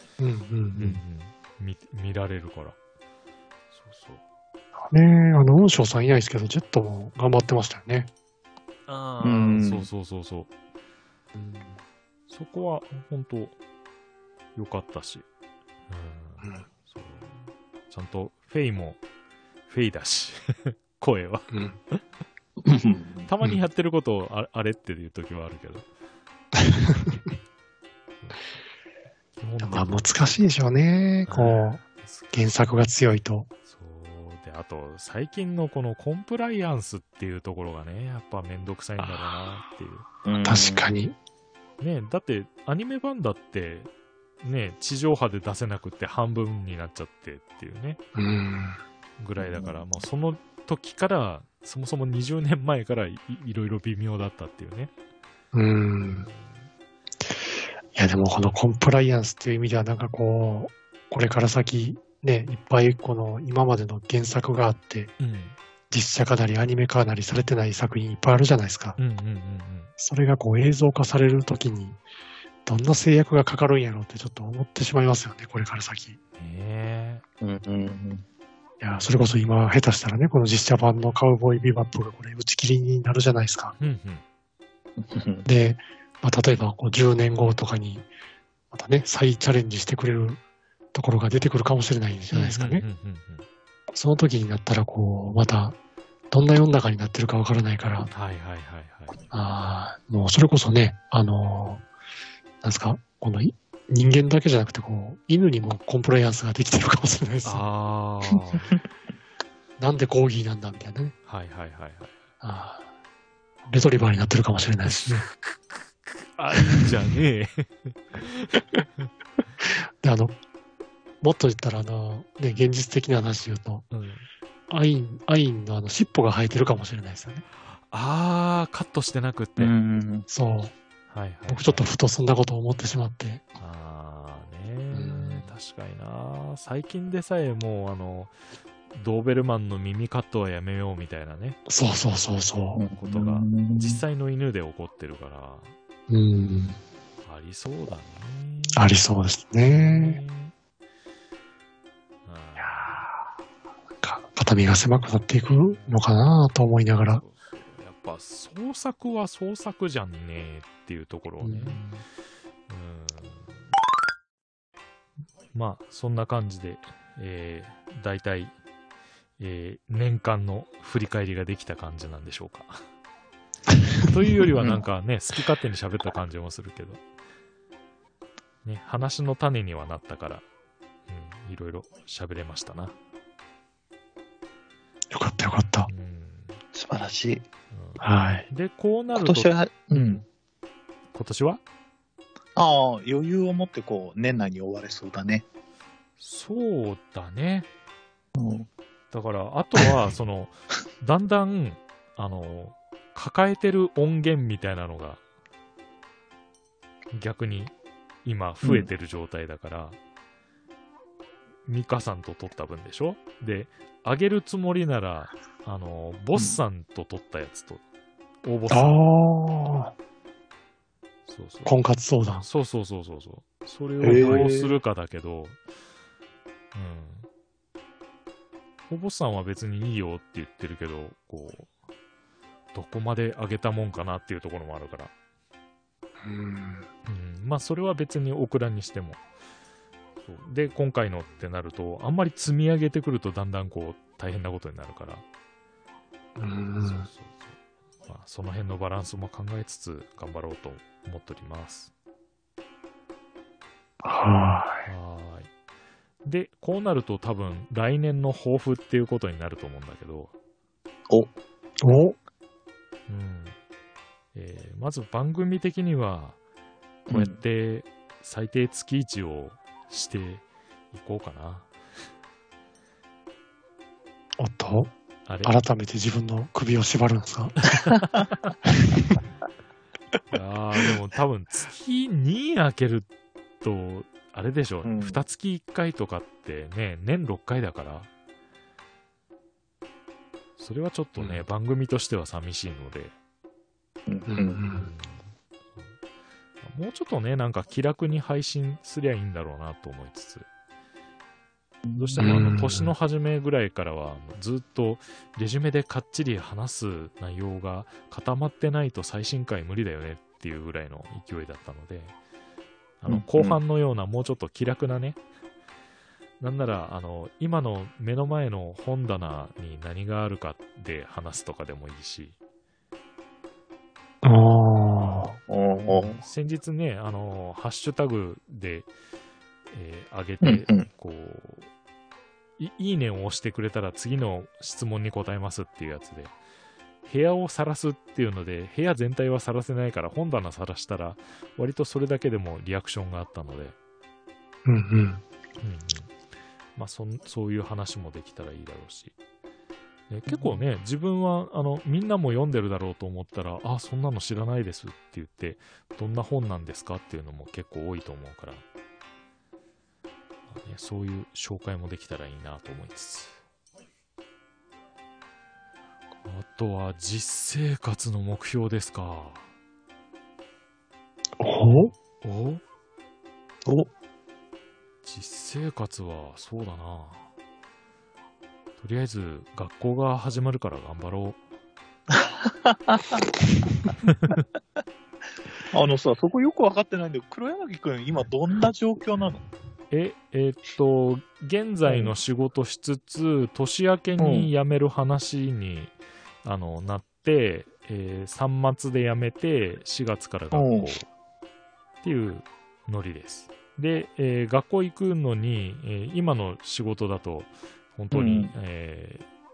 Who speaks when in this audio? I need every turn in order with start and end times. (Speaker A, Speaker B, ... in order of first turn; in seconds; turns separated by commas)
Speaker A: 0.2-1.0, Speaker B: 0.7-2.8, Speaker B: 3.7-4.2, Speaker A: 4.8-8.1, Speaker B: 8.9-10.5, Speaker C: 9.2-9.9, Speaker A: 11.3-11.8, Speaker B: 12.3-13.6, Speaker B: 14.6-15.2, Speaker B: 15.9-19.0, Speaker B: 19.7-22.0, Speaker A: 21.5-21.8, Speaker C: 22.6-23.3, Speaker B: 23.3-25.9, Speaker A: 26.6-27.2, Speaker B: 28.2-28.5, Speaker B: 29.4-30.1, Speaker A: 29.6-33.5, Speaker B: 31.3-32.3, Speaker B: 33.7-40.1, Speaker C: 40.2-40.9, Speaker A: 40.4-41.1, Speaker B: 41.8-43.9, Speaker B: 44.4-48.0, Speaker A: 48.1-48.8, Speaker B: 49.2-54.9, Speaker C: 49.4-49.8, Speaker A: 55.5-56.3, Speaker B: 56.2-56.6, Speaker A: 57.9-65.1, Speaker B: 65.2-65.6, Speaker A: 65.9-69.0, Speaker B: 69.0-69.9, Speaker A: 70.0-72.0, Speaker A: 72.7-76.2, Speaker B: 76.4-77.2, Speaker C: 77.4-78.2, Speaker A: 78.8-83.8, Speaker B: 83.8-84.2, Speaker C: 85.0-85.4, Speaker A: 85.4-88.1, Speaker A: 88.7-90.4, Speaker A: 90.9-92.8, Speaker B: 92.3-93.5, Speaker A: 93.9-95.8, Speaker A: 96.3-98.1, Speaker B: 98.0-99.2, Speaker A: 99.3-101.8, Speaker A: 102.6-107.6, Speaker B: 107.4-108.7, Speaker A: 109.8-111.2, Speaker B: 111.3-112.2, Speaker A: 112.4-112.8, Speaker A: 113.7-115.3, Speaker B: 115.1-119.1, Speaker A: 119.7-120.3, Speaker A: 121.2-123.8, Speaker B: 123.9-124.3, Speaker A: 124.7-127.4, Speaker B: 127.7-129.7, Speaker C: 129.6-130.3, Speaker A: 130.3-130.7, Speaker B: 131.1-131.9, Speaker A: 131.5-133.4, Speaker B: 133.6-138.3, Speaker A: 134.9-135.5, Speaker B: 138.9-141.6, Speaker A: 141.7-142.8, Speaker C: 142.7-144.0, Speaker B: 142.9-145.7, Speaker A: 146.1-146.8, Speaker B: 147.2-148.9, Speaker A: 148.7-150.2, Speaker B: 149.7-150.5, Speaker B: 152.2-153.1, Speaker A: 152.6-153.2, Speaker A: 154.0-157.2, Speaker B: 155.7-156.1, Speaker B: 157.1-161.8, Speaker A: 161.4-161.8, Speaker B: 162.7-163.5, Speaker B: 165.5-168.5, Speaker B: 169.4-172.8, Speaker B: 174.1-177.0, Speaker B: 178.7-180.4, Speaker B: 181.1-182.9, Speaker A: 185.1-185.9, Speaker B: 185.9-186.6, Speaker C: 186.7-187.4, Speaker B: 187.7-190.2, Speaker A: 188.0-188.5, Speaker C: 189.2-190.2, Speaker B: 191.1-191.6, Speaker C: 192.6-195.4, Speaker B: 196.2-197.7, Speaker C: 198.3-198.7, Speaker B: 199.1-205.2, Speaker B: 207.1-207.7, Speaker B: 208.2-210.0, Speaker C: 208.6-208.9, Speaker B: 211.7-217.8, Speaker B: 218.4-218.9, Speaker A: 218.7-219.9, Speaker B: 221.3-221.8, Speaker A: 221.7-222.5, Speaker B: 222.4-225.6, Speaker C: 224.0-224.8, Speaker B: 226.7-227.3, Speaker B: 228.9-231.7, Speaker B: 232.7-235.1, Speaker A: 236.2-236.9, Speaker B: 237.1-239.2, Speaker B: 240.2-245.2, Speaker A: 246.4-247.1, Speaker B: 246.8-247.6, Speaker B: 248.1-251.9, Speaker A: 254.0-254.8, Speaker B: 254.8-255.5, Speaker B: 256.2-260.3, Speaker A: 261.8-262.1, Speaker B: 263.1-263.6, Speaker B: 264.3-266.4, Speaker C: 267.1-267.4, Speaker B: 267.1-271.7, Speaker A: 274.4-274.9, Speaker B: 275.3-275.6, Speaker A: 275.4-277.6, Speaker B: 277.6-278.1, Speaker B: 280.3-283.1, Speaker B: 283.6-288.1, Speaker C: 284.8-285.2, Speaker B: 290.6-293.1, Speaker A: 291.2-291.4, Speaker C: 294.1-294.6, Speaker A: 294.3-294.9, Speaker B: 294.8-295.3, Speaker B: 296.6-300.5, Speaker C: 301.9-302.4, Speaker B: 302.0-312.1, Speaker A: 302.2-302.9, Speaker B: 313.0-315.2, Speaker C: 313.1-313.6, Speaker B: 316.4-322.4, Speaker A: 324.2-325.4, Speaker C: 325.5-326.2, Speaker B: 325.9-328.9, Speaker B: 329.7-331.7, Speaker C: 330.4-330.9, Speaker B: 332.6-336.4, Speaker B: 337.0-343.8, Speaker A: 344.6-345.2, Speaker B: 345.6-346.1, Speaker B: 346.8-349.1, Speaker B: 350.1-358.6, Speaker C: 350.3-350.6, Speaker B: 360.5-363.4, Speaker B: 366.2-369.5, Speaker A: 371.4-371.9, Speaker B: 372.2-372.6, Speaker B: 375.0-377.3, Speaker B: 378.8-381.4, Speaker C: 382.1-384.3, Speaker C: 385.7-389.4, Speaker B: 389.9-401.1, Speaker C: 391.9-392.1, Speaker C: 394.2-394.5, Speaker C: 400.5-400.9, Speaker B: 402.0-409.3, Speaker C: 408.1-408.5